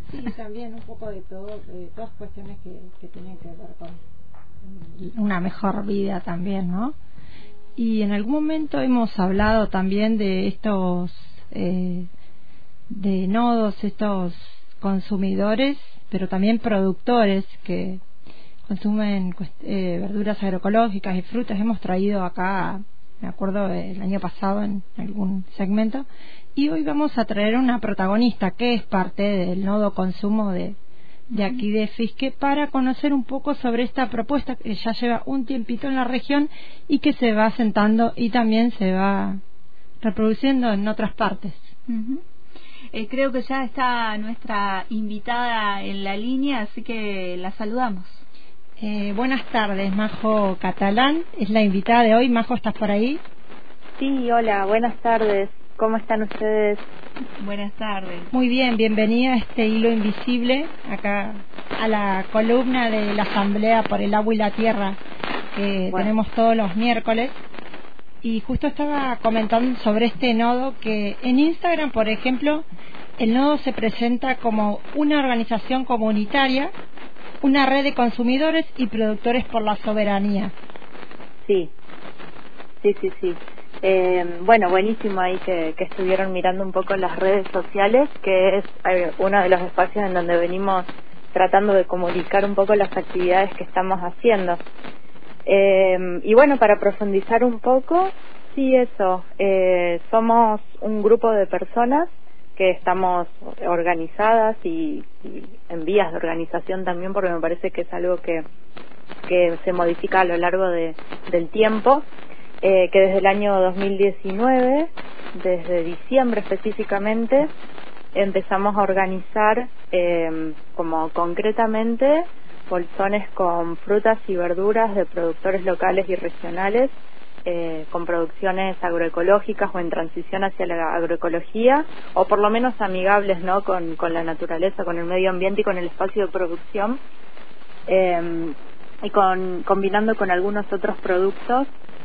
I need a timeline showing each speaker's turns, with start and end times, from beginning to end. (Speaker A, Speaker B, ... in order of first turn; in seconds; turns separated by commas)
Speaker A: 0.1-4.0, Speaker A: 4.6-6.9, Speaker A: 7.8-12.1, Speaker A: 12.9-18.0, Speaker A: 18.7-30.8, Speaker A: 31.3-39.4, Speaker A: 40.0-41.7, Speaker B: 41.9-42.2, Speaker B: 42.9-48.2, Speaker A: 48.8-53.2, Speaker C: 54.0-56.8, Speaker B: 57.4-58.3, Speaker A: 58.3-65.0, Speaker A: 65.5-67.4, Speaker A: 68.2-72.6, Speaker A: 73.2-76.7, Speaker A: 77.4-80.5, Speaker C: 81.5-81.7, Speaker C: 82.8-94.6, Speaker C: 95.5-108.4, Speaker C: 109.3-112.0, Speaker C: 112.6-117.5, Speaker C: 118.1-126.9, Speaker C: 127.4-137.0, Speaker C: 137.9-141.7